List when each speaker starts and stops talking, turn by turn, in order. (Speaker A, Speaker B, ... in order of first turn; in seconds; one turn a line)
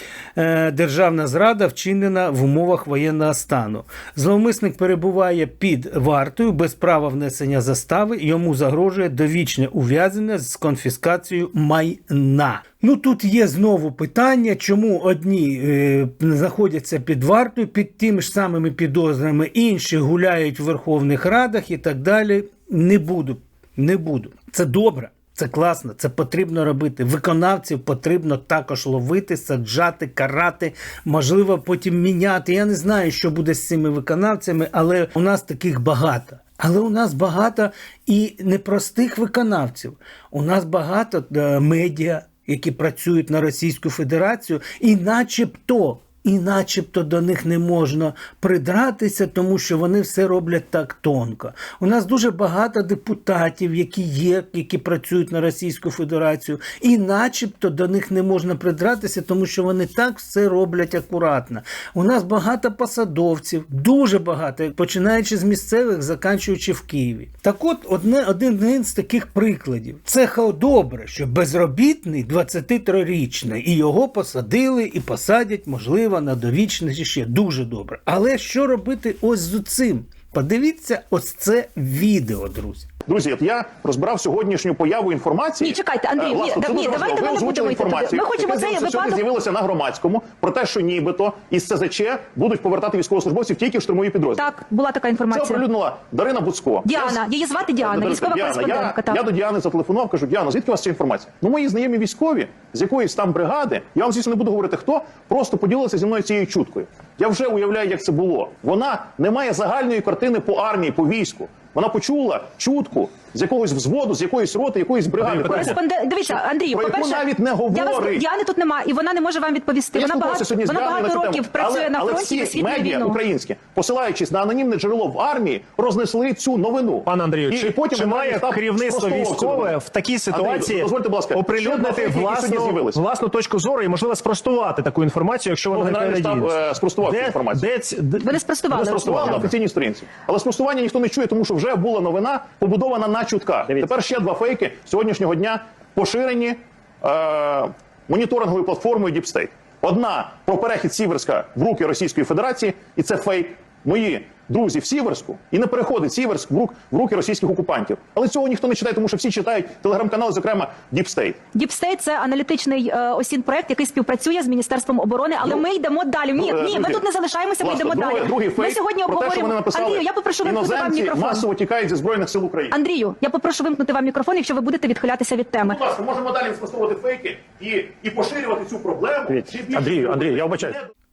Speaker A: 0.4-82.9
Speaker B: 83.1-94.5
Speaker C: 85.6-89.2
Speaker C: 94.4-95.6
Speaker B: 95.3-118.3
Speaker C: 96.9-99.2
Speaker D: 115.2-115.8
Speaker C: 115.4-123.2
Speaker B: 119.9-129.8
Speaker D: 127.1-139.5
Speaker B: 130.3-133.0
Speaker B: 135.7-137.7
Speaker C: 138.2-139.5
Speaker B: 138.7-161.4
Speaker C: 161.6-171.5
Speaker B: 166.3-167.0
Speaker B: 167.6-172.8
Speaker C: 172.7-175.8
Speaker B: 175.6-180.9
Speaker D: 179.8-180.5